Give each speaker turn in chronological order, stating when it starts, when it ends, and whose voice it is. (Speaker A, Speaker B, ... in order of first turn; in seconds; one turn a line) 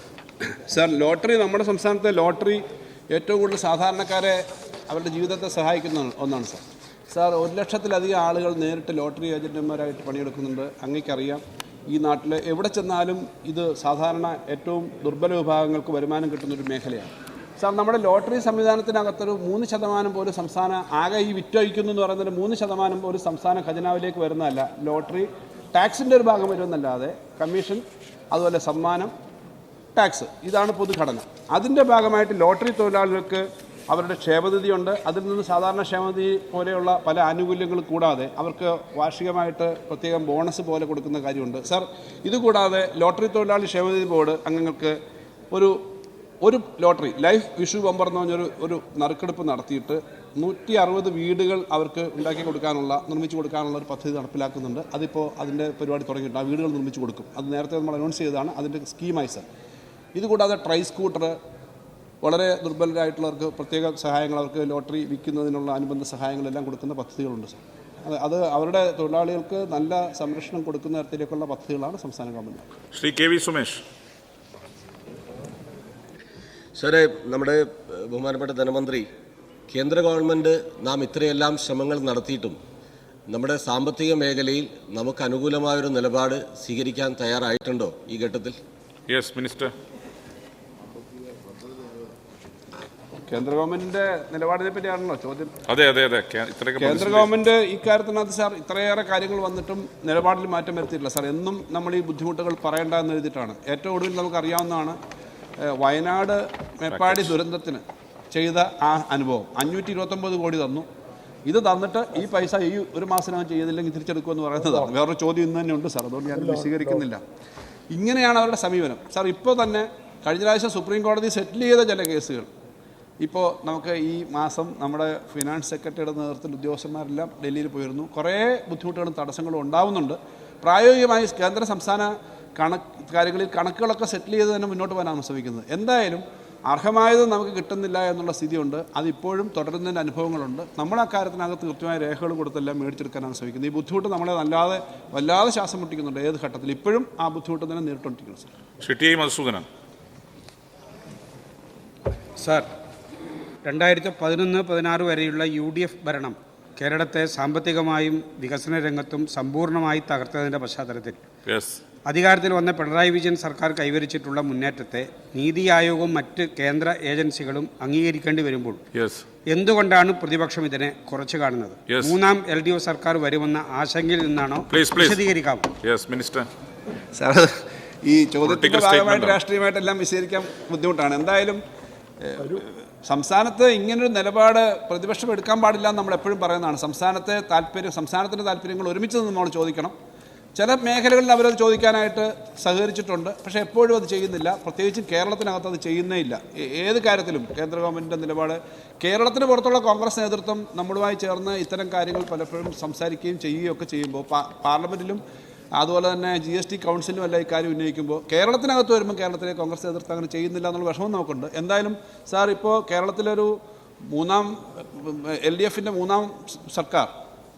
Speaker A: 0.7-29.1
Speaker A: 29.9-45.0
Speaker A: 45.5-45.9
Speaker A: 46.4-59.5
Speaker A: 60.1-61.4
Speaker A: 62.2-72.7
Speaker B: 72.9-73.8
Speaker C: 76.8-79.1
Speaker C: 79.7-82.6
Speaker C: 83.3-88.6
Speaker B: 89.1-89.7
Speaker A: 93.2-95.5
Speaker B: 95.7-97.3
Speaker A: 96.8-105.0
Speaker A: 105.6-110.9
Speaker B: 106.9-107.3
Speaker A: 111.5-117.2
Speaker A: 117.9-122.5
Speaker A: 123.2-148.5
Speaker B: 148.8-149.7
Speaker D: 152.4-152.7
Speaker D: 153.7-161.2
Speaker B: 161.5-161.8
Speaker D: 162.1-168.8
Speaker B: 168.9-169.2
Speaker D: 169.5-175.7
Speaker B: 174.7-175.3
Speaker B: 175.8-176.5
Speaker A: 177.1-181.6
Speaker B: 178.4-179.4
Speaker A: 182.2-189.9
Speaker A: 190.6-205.2
Speaker A: 205.8-217.1